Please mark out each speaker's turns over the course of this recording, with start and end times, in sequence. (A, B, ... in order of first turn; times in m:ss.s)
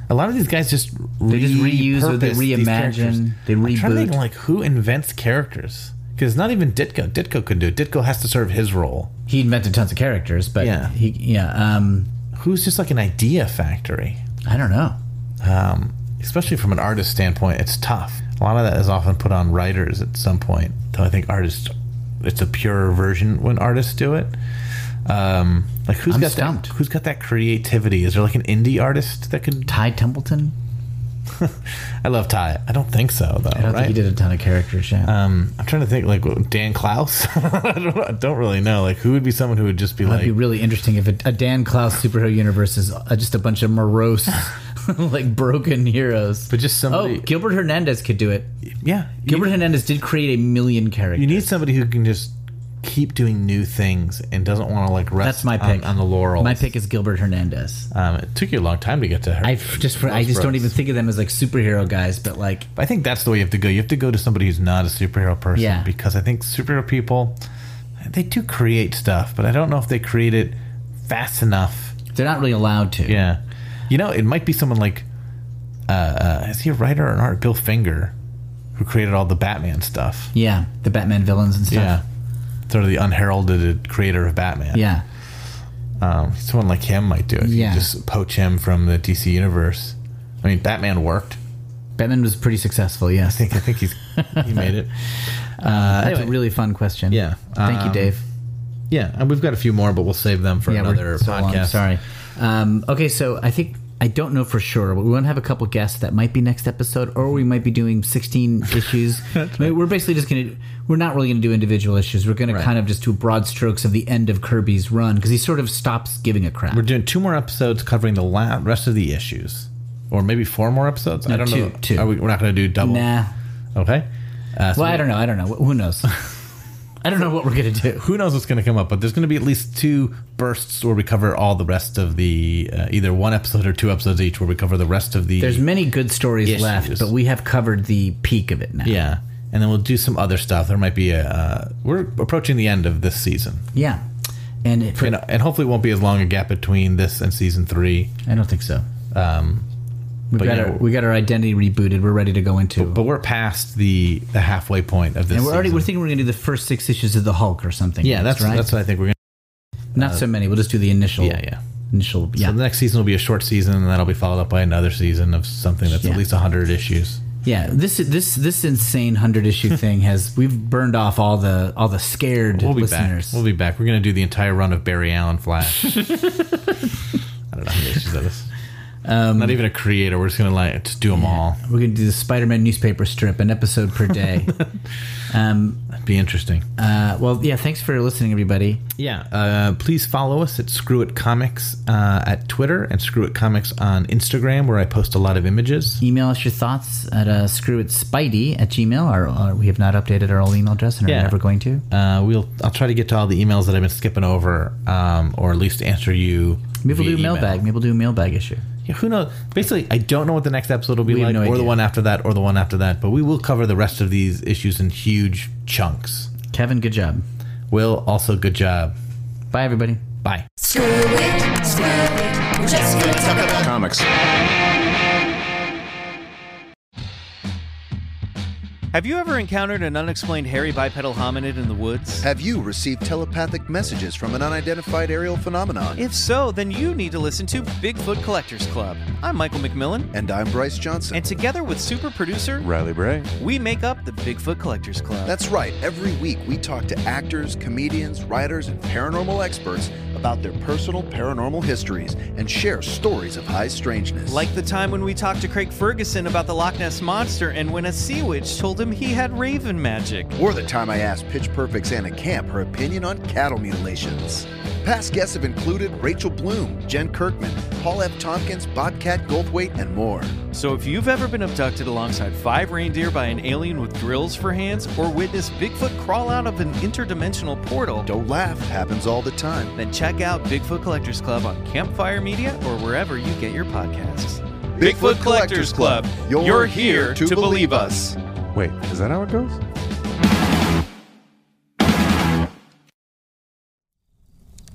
0:00.1-0:09.1 A
0:01.3-0:04.2 B
0:09.3-0:12.1 B
0:10.6-0:10.9 A
0:12.3-0:14.2 A
0:14.5-0:15.0 B
0:15.4-0:24.4 A
0:25.0-0:29.8 A
0:26.1-0:26.7 B
0:29.7-0:30.5 B
0:31.3-0:34.0 A
0:33.5-0:35.1 B
0:35.0-0:40.4 A
0:40.0-0:48.5 B
0:46.5-0:47.3 A
0:48.8-0:49.6 A
0:49.2-0:51.5 B
0:51.2-0:56.7 A
0:55.2-0:57.9 B
0:57.9-1:00.7 A
0:59.4-1:02.7 B
1:02.8-1:07.4 A
1:05.6-1:05.9 B
1:08.0-1:12.0 A
1:12.1-1:13.2 B
1:13.1-1:15.1 A
1:15.9-1:18.1 A
1:18.8-1:20.3 A
1:20.3-1:22.0 B
1:21.7-1:22.0 A
1:22.7-1:24.9 A
1:24.7-1:25.0 B
1:26.0-1:31.4 A
1:27.4-1:27.9 B
1:32.0-1:33.6 B
1:33.2-1:34.9 A
1:34.2-1:34.4 B
1:35.6-1:38.2 B
1:35.6-1:36.4 A
1:37.1-1:38.1 A
1:38.9-1:41.9 A
1:40.7-1:56.8 B
1:56.7-2:03.1 A
2:01.3-2:02.1 B
2:02.8-2:03.3 B
2:03.8-2:05.2 A
2:04.8-2:06.1 B
2:07.0-2:08.0 B
2:08.0-2:15.7 A
2:15.4-2:19.0 B
2:16.4-2:17.1 A
2:18.8-2:23.7 A
2:23.7-2:24.0 B
2:24.6-2:25.2 B
2:25.0-2:28.2 A
2:28.3-2:28.9 B
2:29.1-2:29.7 A
2:30.3-2:33.0 B
2:30.4-2:30.8 A
2:32.8-2:35.9 A
2:35.3-2:38.7 B
2:38.0-2:39.2 A
2:40.0-2:42.6 B
2:40.0-2:40.2 A
2:41.2-2:41.6 A
2:42.4-2:47.2 A
2:46.0-2:46.2 B
2:47.4-2:53.4 B
2:52.5-2:56.5 A
2:57.5-2:58.5 A
2:59.0-2:59.6 B
2:59.4-3:01.6 A
3:01.1-3:04.7 B
3:05.3-3:05.9 B
3:05.9-3:06.7 A
3:06.8-3:08.8 B
3:09.0-3:16.0 A
3:16.0-3:21.8 B
3:21.1-3:21.4 A
3:21.9-3:27.6 A
3:26.8-3:28.7 B
3:28.8-3:36.3 A
3:31.0-3:31.8 B
3:36.5-3:37.2 B
3:37.7-3:39.0 A
3:39.5-3:40.0 B
3:40.6-3:43.8 C
3:43.6-3:44.1 D
3:48.9-3:52.2 E
3:52.2-3:56.0 F
3:56.0-4:00.1 E
4:00.1-4:01.3 F
4:01.1-4:02.7 E
4:02.6-4:03.3 D
4:03.4-4:05.4 E
4:05.3-4:14.5 F
4:14.3-4:20.4 E
4:20.4-4:30.4 F
4:30.5-4:38.1 E
4:38.0-4:39.8 F
4:39.8-4:48.2 E
4:44.8-4:48.0 F
4:48.6-4:49.6 D